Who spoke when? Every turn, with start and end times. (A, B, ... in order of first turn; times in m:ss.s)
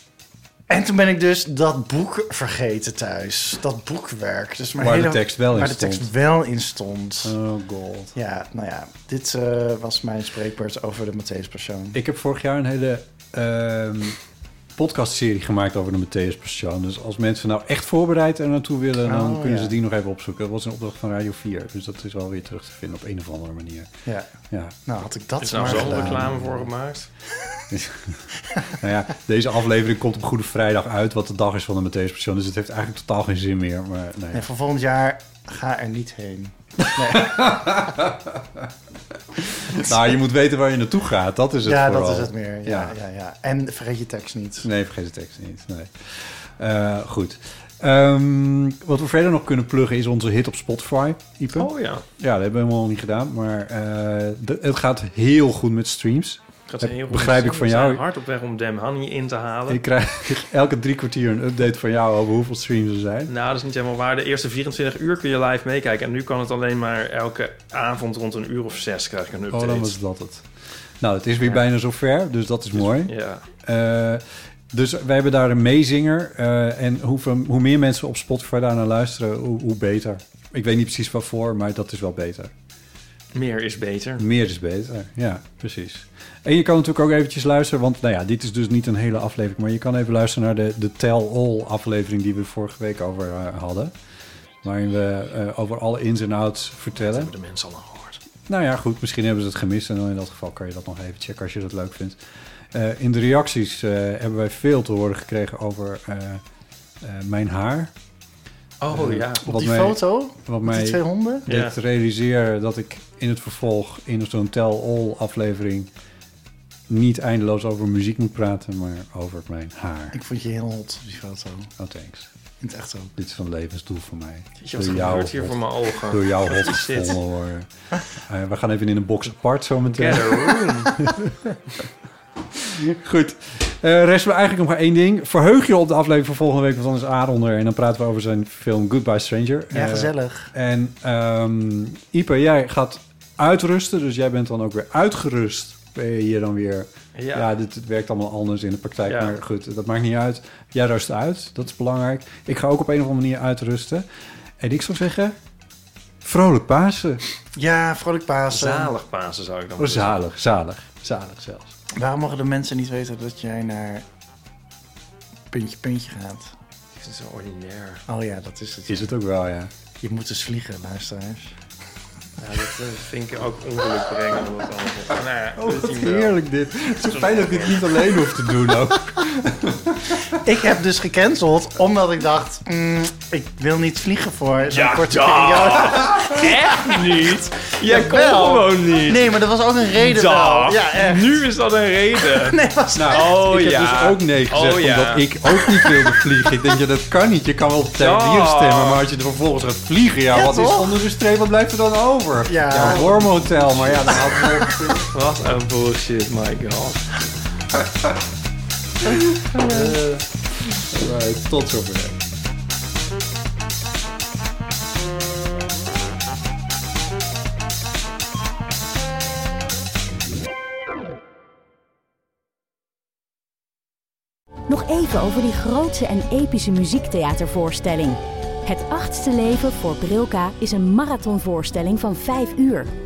0:00.7-0:07.3 A
0:04.8-0:06.1 B
0:07.2-0:08.2 B
0:08.1-0:12.0 A
0:11.9-0:14.2 B
0:14.7-0:23.9 B
0:19.0-0:19.8 A
0:24.5-0:24.8 B
0:24.9-0:26.3 A
0:25.4-0:27.1 C
0:25.6-0:26.7 B
0:27.7-0:34.4 B
0:34.3-0:37.6 A
0:36.9-0:38.6 B
0:39.4-0:43.0 B
0:41.6-0:44.7 A
0:44.6-0:58.0 B
0:51.5-0:52.0 C
0:56.7-0:59.8 C
0:59.7-1:03.3 B
1:03.2-1:09.9 C
1:09.5-1:10.4 B
1:11.0-1:22.5 B
1:12.7-1:13.4 C
1:23.3-1:24.2 C
1:24.2-1:33.9 B
1:34.6-1:37.3 B
1:37.0-1:38.2 C
1:38.5-1:42.2 B
1:42.7-1:46.4 B
1:47.0-1:47.9 B
1:48.8-1:49.5 C
1:48.9-1:55.9 B
1:49.4-1:51.5 A
1:51.5-1:51.7 C
1:56.9-2:00.1 B
2:00.1-2:01.7 A
2:01.8-2:02.3 B
2:02.6-2:03.1 A
2:03.2-2:11.3 B
2:04.6-2:07.2 C
2:09.8-2:11.0 C
2:12.6-2:34.0 B
2:19.7-2:20.5 A
2:27.1-2:27.5 C
2:29.0-2:29.4 C
2:34.6-2:35.4 B
2:36.2-2:37.2 B
2:37.5-2:38.9 A
2:38.5-2:40.2 C
2:39.8-2:41.7 B
2:42.0-2:44.0 A
2:45.5-2:46.5 A
2:47.0-2:48.0 C
2:48.1-2:49.1 A
2:48.9-2:49.7 B
2:50.0-2:51.5 A
2:52.4-2:58.1 C
2:55.6-3:00.2 B
3:00.3-3:11.5 A
3:04.7-3:09.4 C
3:09.9-3:12.6 C
3:12.2-3:13.3 A
3:12.9-3:25.1 B
3:13.1-3:15.8 C
3:18.0-3:19.0 C
3:20.3-3:21.0 A
3:22.4-3:23.4 A
3:22.7-3:23.3 C
3:23.9-3:24.5 A
3:25.1-3:27.2 C
3:29.1-3:30.2 C
3:30.9-3:32.2 B
3:44.7-3:52.9 D